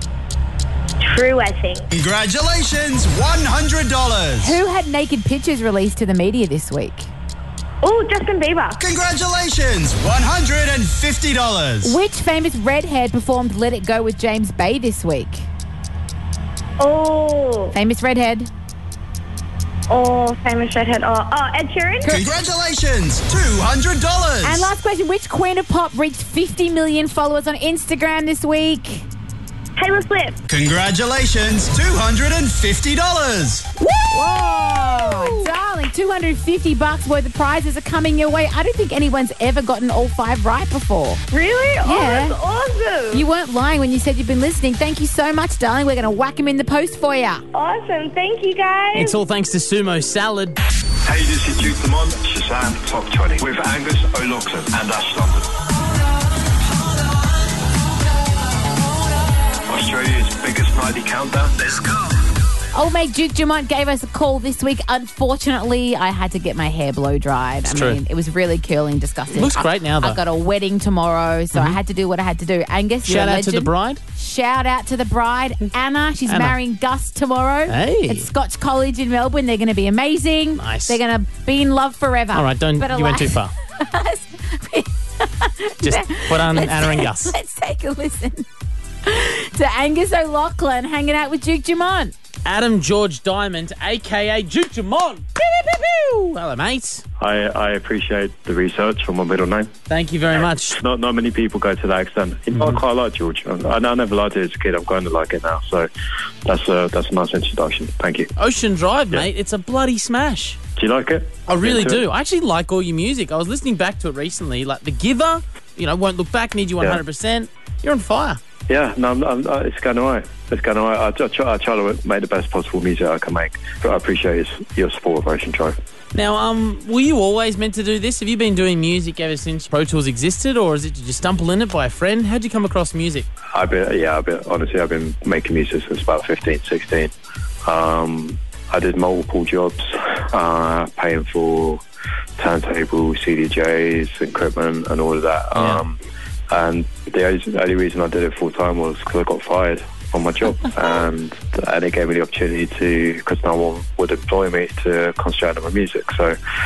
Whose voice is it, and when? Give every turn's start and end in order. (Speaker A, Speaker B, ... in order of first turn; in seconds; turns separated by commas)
Speaker A: 1.0-1.9, Speaker B: 1.9-4.6, Speaker C: 4.4-7.1, Speaker A: 7.8-8.8, Speaker B: 8.8-12.0, Speaker C: 11.8-15.5, Speaker A: 16.8-17.8, Speaker C: 17.7-18.5, Speaker A: 19.9-22.1, Speaker B: 22.1-24.7, Speaker C: 24.4-29.1, Speaker A: 29.8-30.4, Speaker B: 30.5-33.6, Speaker A: 33.9-35.2, Speaker C: 34.1-41.2, Speaker A: 41.3-43.3, Speaker C: 41.8-42.4, Speaker C: 43.1-47.4, Speaker A: 47.5-49.2, Speaker D: 48.9-50.6, Speaker E: 51.0-55.5, Speaker E: 59.7-61.6, Speaker C: 62.7-88.5, Speaker D: 67.7-68.0, Speaker D: 69.3-70.2, Speaker D: 71.5-71.8, Speaker D: 73.0-74.0, Speaker D: 76.3-76.6, Speaker D: 77.7-78.3, Speaker D: 80.6-81.0, Speaker D: 82.3-83.5, Speaker D: 85.8-87.3, Speaker C: 89.0-92.1, Speaker D: 92.5-97.0, Speaker E: 97.2-99.7, Speaker D: 99.9-100.8, Speaker E: 100.7-105.9, Speaker E: 106.5-108.3, Speaker D: 108.4-110.6, Speaker E: 110.8-112.0, Speaker D: 111.5-118.4, Speaker E: 118.7-125.8, Speaker D: 126.1-133.3, Speaker E: 133.5-137.1, Speaker E: 137.7-141.8, Speaker E: 142.4-146.0, Speaker E: 146.5-156.4